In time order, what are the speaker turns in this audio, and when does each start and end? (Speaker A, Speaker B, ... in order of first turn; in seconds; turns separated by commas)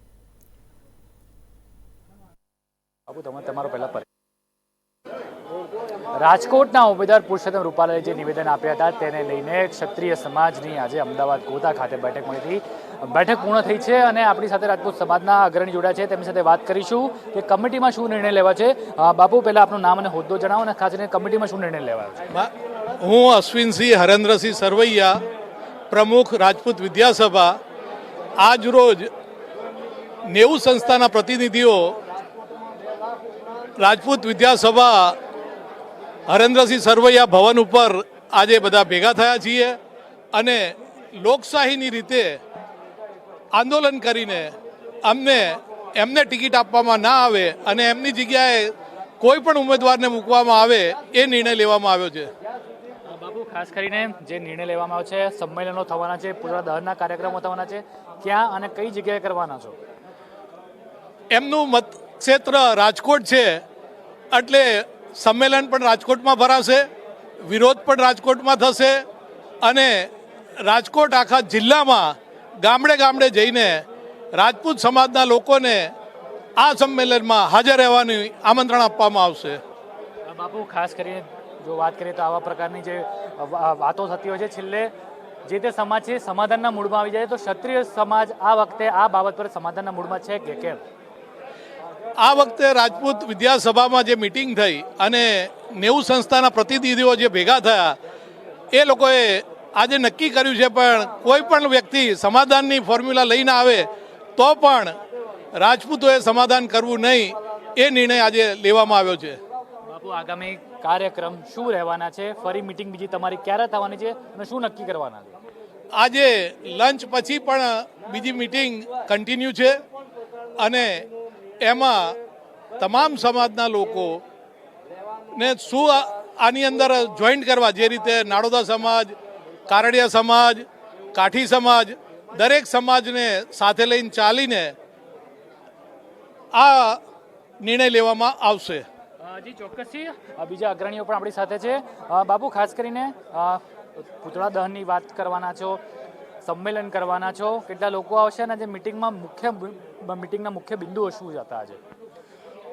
Speaker A: 3.1-4.0, Speaker A: 6.2-22.2, Speaker B: 22.3-25.2, Speaker B: 25.9-27.5, Speaker B: 28.4-29.1, Speaker B: 30.3-31.9, Speaker B: 33.8-35.1, Speaker B: 36.3-39.8, Speaker B: 40.3-42.4, Speaker B: 43.5-44.5, Speaker B: 45.0-52.3, Speaker A: 53.1-59.8, Speaker B: 61.3-63.6, Speaker B: 64.3-66.9, Speaker B: 67.5-69.0, Speaker B: 69.6-70.1, Speaker B: 70.7-72.1, Speaker B: 72.6-73.8, Speaker B: 74.4-75.9, Speaker B: 76.6-79.6, Speaker A: 80.3-84.9, Speaker A: 85.5-90.8, Speaker B: 92.2-98.0, Speaker B: 98.7-105.0, Speaker B: 105.6-109.4, Speaker A: 109.9-115.4, Speaker B: 116.0-119.8, Speaker B: 120.6-121.1, Speaker B: 121.6-122.2, Speaker B: 122.8-124.2, Speaker B: 125.3-129.2, Speaker B: 129.7-134.8, Speaker B: 136.5-137.0, Speaker B: 137.6-138.8, Speaker A: 139.2-143.6, Speaker A: 144.2-145.8, Speaker A: 146.4-151.8